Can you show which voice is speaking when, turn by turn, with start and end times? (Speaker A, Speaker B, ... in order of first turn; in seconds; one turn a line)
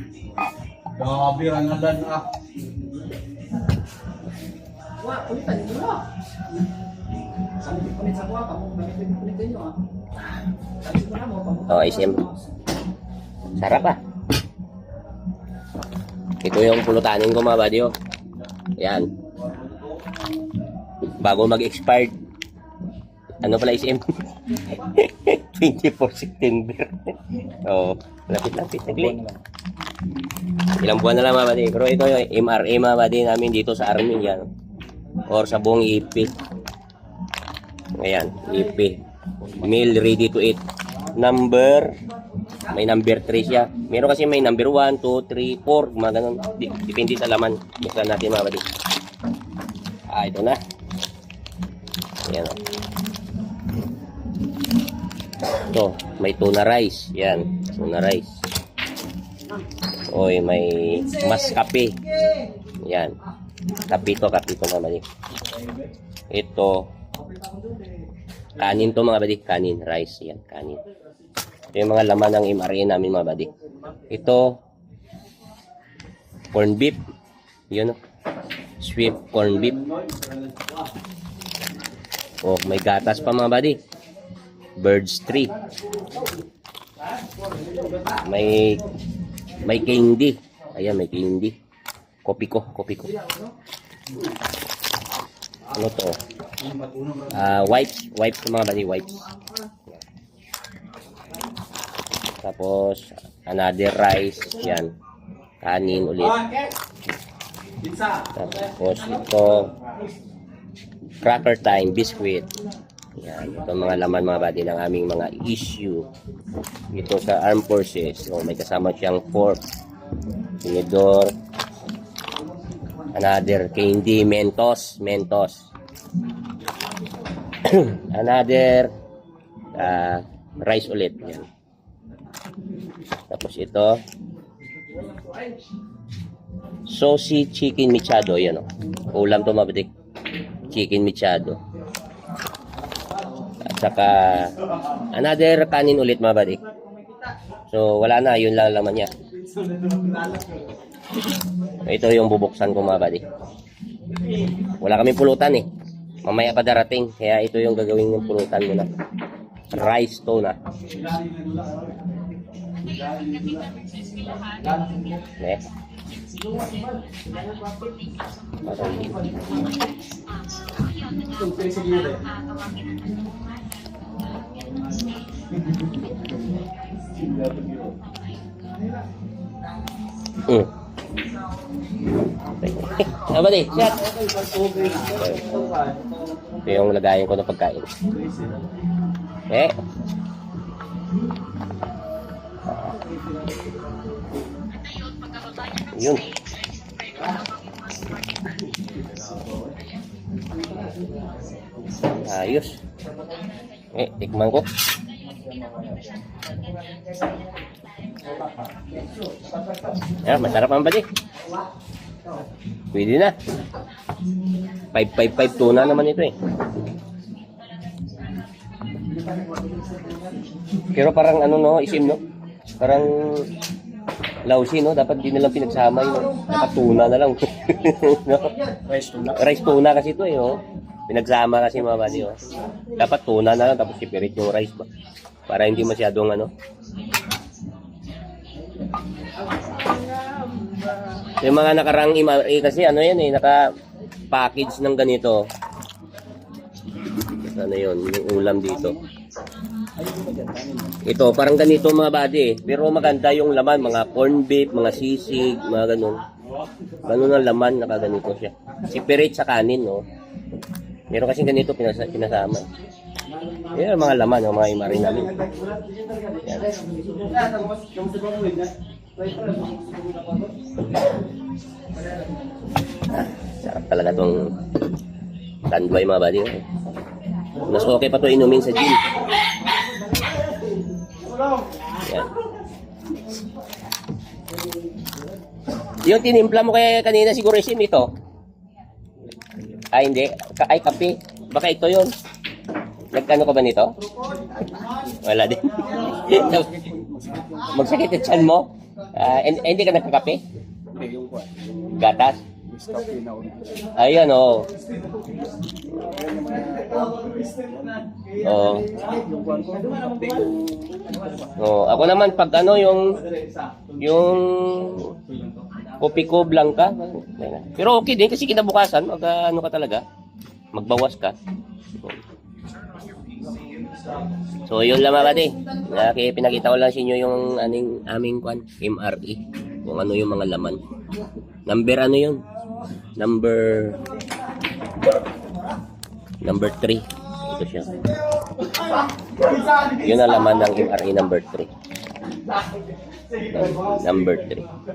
Speaker A: 0.9-2.3
Speaker B: 5.0-6.0
Speaker B: 7.9-9.7
Speaker B: 10.9-11.7
Speaker C: 11.7-12.3
Speaker C: 13.6-14.0
Speaker C: 16.4-17.9
Speaker C: 18.8-19.1
Speaker C: 21.2-22.2
Speaker C: 23.4-29.2
Speaker A: 29.1-29.4
Speaker C: 30.8-34.5
Speaker C: 35.3-36.3
Speaker C: 38.0-40.6
Speaker C: 41.1-42.0
Speaker C: 42.7-48.7
Speaker C: 50.1-50.6
Speaker C: 52.3-52.6
Speaker C: 55.6-58.4
Speaker C: 60.1-62.0
Speaker C: 62.8-63.2
Speaker C: 63.8-65.1
Speaker C: 66.3-66.9
Speaker C: 68.6-70.8
Speaker C: 71.7-73.5
Speaker C: 74.1-74.5
Speaker C: 76.5-77.0
Speaker C: 77.7-78.0
Speaker C: 78.8-79.8
Speaker A: 79.6-80.8
Speaker C: 82.4-83.8
Speaker C: 84.8-85.5
Speaker C: 88.2-88.9
Speaker C: 89.7-91.5
Speaker C: 92.2-93.2
Speaker C: 95.7-96.2
Speaker A: 96.5-97.5
Speaker C: 97.3-99.2
Speaker C: 102.4-104.9
Speaker C: 105.6-106.5
Speaker A: 107.8-108.3
Speaker C: 108.3-109.7
Speaker C: 111.2-112.5
Speaker C: 113.2-116.1
Speaker C: 116.9-119.6
Speaker C: 120.6-121.3
Speaker C: 123.1-125.7
Speaker C: 127.6-128.9
Speaker C: 129.7-131.5
Speaker C: 133.3-134.0
Speaker C: 136.9-139.9
Speaker C: 140.7-141.6
Speaker C: 143.6-144.5
Speaker C: 145.1-146.6
Speaker C: 147.7-149.1
Speaker A: 149.4-150.7
Speaker C: 151.8-153.2
Speaker C: 154.8-155.7
Speaker C: 156.2-158.9
Speaker C: 159.7-160.6
Speaker A: 160.8-162.1
Speaker A: 162.8-163.8
Speaker A: 164.4-165.2
Speaker C: 165.4-165.6
Speaker B: 166.8-167.9
Speaker C: 168.6-169.6
Speaker A: 171.3-172.3
Speaker A: 174.7-175.1
Speaker A: 177.2-177.9
Speaker C: 180.4-180.7
Speaker C: 182.5-184.1
Speaker A: 183.9-186.2
Speaker C: 185.1-185.6
Speaker C: 186.6-187.9
Speaker C: 189.5-189.8
Speaker C: 195.9-196.3
Speaker C: 202.2-202.8
Speaker C: 203.9-204.7
Speaker C: 210.2-211.1
Speaker C: 212.9-213.3
Speaker C: 214.9-216.3
Speaker C: 220.9-222.2
Speaker C: 222.8-223.5
Speaker C: 224.5-228.6
Speaker A: 228.8-229.4
Speaker C: 229.2-232.4
Speaker C: 232.9-234.9
Speaker C: 235.5-236.5
Speaker A: 239.8-240.9
Speaker C: 241.4-243.7
Speaker C: 244.3-245.4
Speaker C: 247.2-249.0
Speaker A: 248.8-249.1
Speaker A: 250.0-251.0
Speaker C: 251.1-256.2
Speaker C: 257.0-260.0
Speaker C: 261.1-262.7
Speaker C: 263.7-265.4
Speaker A: 265.4-270.6
Speaker B: 265.8-266.2
Speaker C: 266.4-266.7
Speaker C: 273.1-274.6
Speaker C: 275.7-276.6
Speaker C: 277.6-279.1
Speaker C: 282.0-282.3
Speaker C: 286.0-288.1
Speaker C: 289.9-292.1
Speaker C: 293.1-294.0
Speaker C: 295.1-296.7
Speaker A: 296.0-297.9
Speaker C: 297.7-300.4
Speaker A: 300.9-302.0
Speaker C: 301.9-302.4
Speaker A: 302.7-303.9
Speaker C: 304.0-304.7
Speaker A: 305.1-305.4
Speaker A: 305.9-308.3
Speaker C: 308.4-308.9
Speaker A: 308.9-311.5
Speaker C: 311.6-313.2
Speaker A: 313.4-313.9
Speaker C: 314.0-315.2
Speaker C: 316.0-320.0
Speaker C: 320.7-321.4
Speaker C: 324.7-330.8
Speaker C: 331.7-332.4
Speaker C: 333.2-334.0
Speaker C: 336.4-337.9
Speaker A: 339.4-339.9
Speaker C: 339.8-341.7
Speaker A: 343.3-344.1
Speaker C: 343.5-344.7